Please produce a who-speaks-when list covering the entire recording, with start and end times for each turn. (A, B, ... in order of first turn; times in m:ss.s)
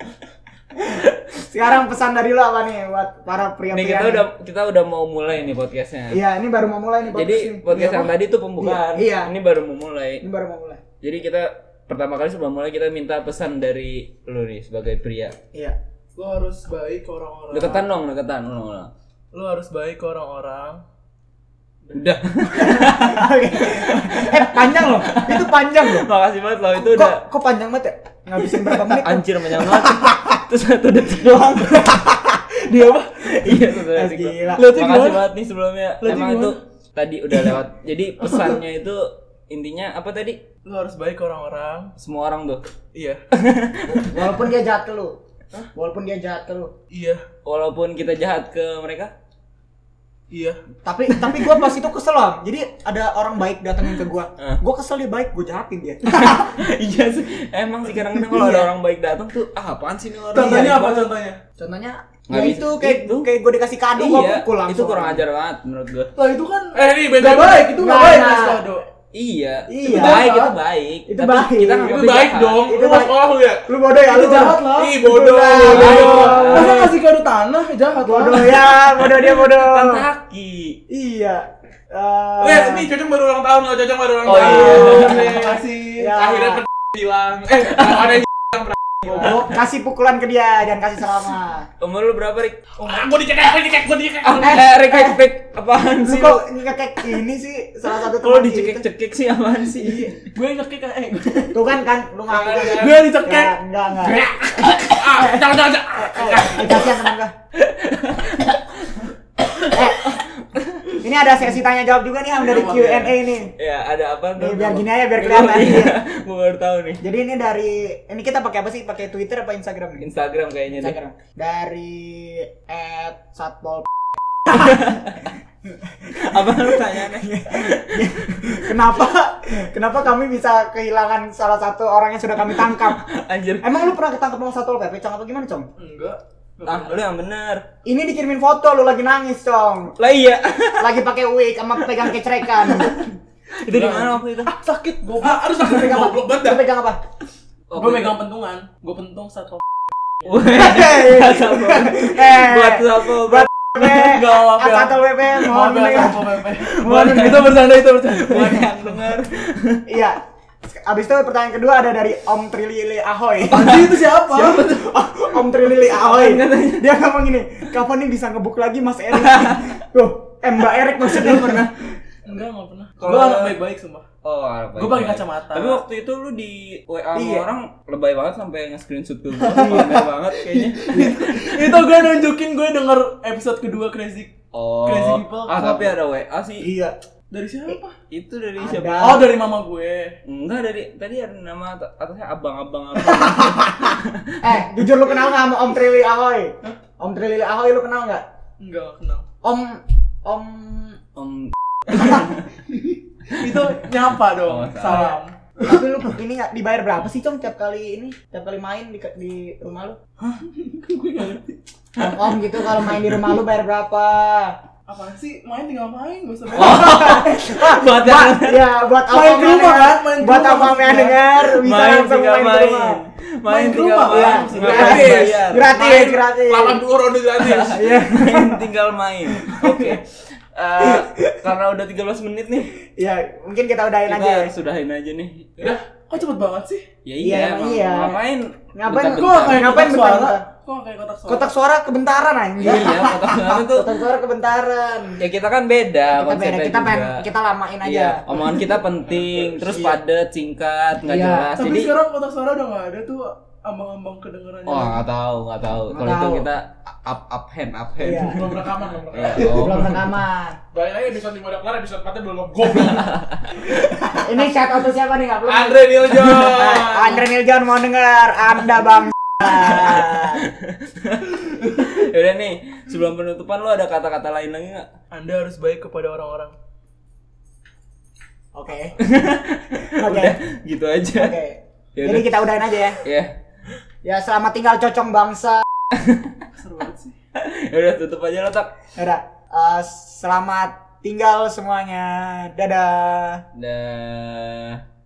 0:00.9-0:04.2 A
0:03.7-0:06.2 B
0:06.1-0:09.3 A
0:07.1-0:10.2 B
0:10.2-0:10.8 A
0:11.0-0:15.4 B
0:16.1-0:17.9 C
0:17.5-0:18.9 B
0:19.3-0:20.8 C
0:21.9-0:27.2 B
0:22.5-0:26.1 A
0:26.7-0:30.2 A
0:28.5-0:32.1 B
0:31.6-0:34.7 A
0:33.2-0:40.4 B
0:34.5-0:35.3 C
0:36.0-0:36.6 C
0:40.6-0:41.9 C
0:42.0-0:42.6 B
0:42.9-0:43.2 C
0:43.3-0:44.3 B
0:43.8-0:45.2 A
0:45.8-0:46.7 A
0:46.9-0:47.2 C
0:47.4-0:49.1 B
0:50.3-0:50.6 C
0:50.8-0:56.5 A
0:56.0-1:00.7 B
0:58.1-0:58.7 A
1:00.3-1:01.4 C
1:00.4-1:05.2 A
1:02.3-1:03.3 B
1:04.0-1:06.1 B
1:06.2-1:08.8 C
1:06.7-1:07.7 D
1:07.2-1:08.6 A
1:09.1-1:12.6 B
1:09.7-1:10.5 A
1:09.9-1:10.5 C
1:11.1-1:12.0 A
1:11.9-1:13.6 D
1:12.5-1:16.9 A
1:14.0-1:15.0 C
1:14.7-1:16.3 D
1:15.6-1:18.8 C
1:15.6-1:16.9 B
1:18.0-1:20.1 A
1:18.9-1:20.8 B
1:20.9-1:22.9 A
1:22.4-1:25.6 D
1:24.2-1:25.2 B
1:24.4-1:25.4 A
1:24.6-1:26.2 C
1:26.0-1:26.6 A
1:26.1-1:29.4 D
1:27.7-1:28.1 B
1:29.0-1:31.7 A
1:31.8-1:32.7 B
1:32.8-1:34.5 D
1:34.2-1:36.4 B
1:34.4-1:35.2 A
1:36.0-1:38.8 A
1:38.0-1:40.2 B
1:39.8-1:41.6 C
1:41.5-1:47.3 A
1:42.3-1:43.0 D
1:42.8-1:44.2 C
1:44.9-1:47.0 D
1:47.5-1:49.1 B
1:49.6-1:51.0 B
1:49.6-1:50.2 A
1:51.0-1:53.5 A
1:52.4-1:53.2 C
1:53.6-1:57.0 B
1:54.4-1:56.0 A
1:57.0-2:00.0 A
2:00.0-2:01.0 B
2:00.7-2:03.9 A
2:04.5-2:05.2 B
2:06.1-2:08.8 B
2:06.4-2:13.0 A
2:12.4-2:13.9 B
2:13.6-2:15.7 A
2:15.8-2:17.0 C
2:16.6-2:17.7 B
2:17.8-2:20.0 A
2:20.0-2:21.0 B
2:20.8-2:23.1 A
2:22.7-2:23.0 B
2:23.6-2:24.5 B
2:23.7-2:26.1 C
2:25.2-2:26.6 D
2:25.6-2:27.0 A
2:27.7-2:28.2 B
2:27.7-2:29.6 C
2:30.2-2:34.4 B
2:30.5-2:36.3 A
2:33.8-2:39.2 C
2:36.6-2:39.9 B
2:39.9-2:51.8 A
2:43.5-2:44.9 C
2:45.8-2:46.9 B
2:49.1-2:49.7 B
2:51.0-2:51.8 B
2:52.2-2:54.0 C
2:53.0-2:53.6 B
2:54.2-3:01.9 B
2:54.8-2:55.8 C
2:57.1-2:57.5 A
2:59.4-3:04.3 C
2:59.5-3:00.0 A
3:04.5-3:06.7 B
3:04.8-3:06.0 C
3:06.6-3:07.0 A
3:07.3-3:07.9 C
3:08.1-3:09.3 B
3:08.6-3:09.2 A
3:09.0-3:10.1 C
3:10.2-3:14.6 B
3:13.1-3:13.9 A
3:14.4-3:18.2 A
3:18.6-3:19.2 C
3:19.4-3:21.0 A
3:21.2-3:22.4 B
3:22.0-3:22.3 A
3:22.7-3:25.4 C
3:23.4-3:23.7 B
3:24.5-3:25.1 B
3:24.9-3:30.0 A
3:30.2-3:31.6 C
3:32.0-3:34.6 A
3:34.9-3:37.2 C
3:36.5-3:38.6 B
3:36.6-3:43.0 A
3:39.0-3:41.4 C
3:41.6-3:45.7 B
3:43.5-3:45.4 C
3:44.1-3:46.8 A
3:44.5-3:47.8 D
3:47.4-3:52.7 B
3:47.6-3:48.6 A
3:49.3-3:50.0 A
3:50.8-3:51.5 A
3:52.9-3:54.5 A
3:54.1-3:55.8 B
3:55.6-3:56.9 C
3:57.0-3:59.8 B
3:57.2-3:58.2 A
3:58.8-4:00.5 A
3:59.2-4:01.5 C
4:01.3-4:05.2 A
4:02.6-4:03.9 B
4:05.2-4:07.2 B
4:06.1-4:08.5 A
4:07.8-4:11.9 B
4:09.7-4:10.0 A
4:11.0-4:11.5 A
4:11.6-4:15.0 C
4:14.6-4:18.4 B
4:15.9-4:16.5 A
4:18.0-4:18.7 A
4:18.2-4:19.6 D
4:19.1-4:20.0 B
4:19.4-4:20.6 A
4:20.7-4:23.2 D
4:22.9-4:23.6 B
4:23.9-4:30.4 A
4:25.4-4:27.2 D
4:29.4-4:34.9 B
4:35.1-4:36.5 C
4:38.5-4:39.0 A
4:39.0-4:41.4 B
4:39.9-4:40.4 A
4:41.2-4:43.0 A
4:42.0-4:42.4 B
4:43.0-4:43.3 B
4:44.0-4:45.6 A
4:46.0-4:46.3 B
4:46.5-4:47.1 C
4:47.4-4:48.8 B
4:49.0-4:53.4 A
4:53.5-4:54.8 B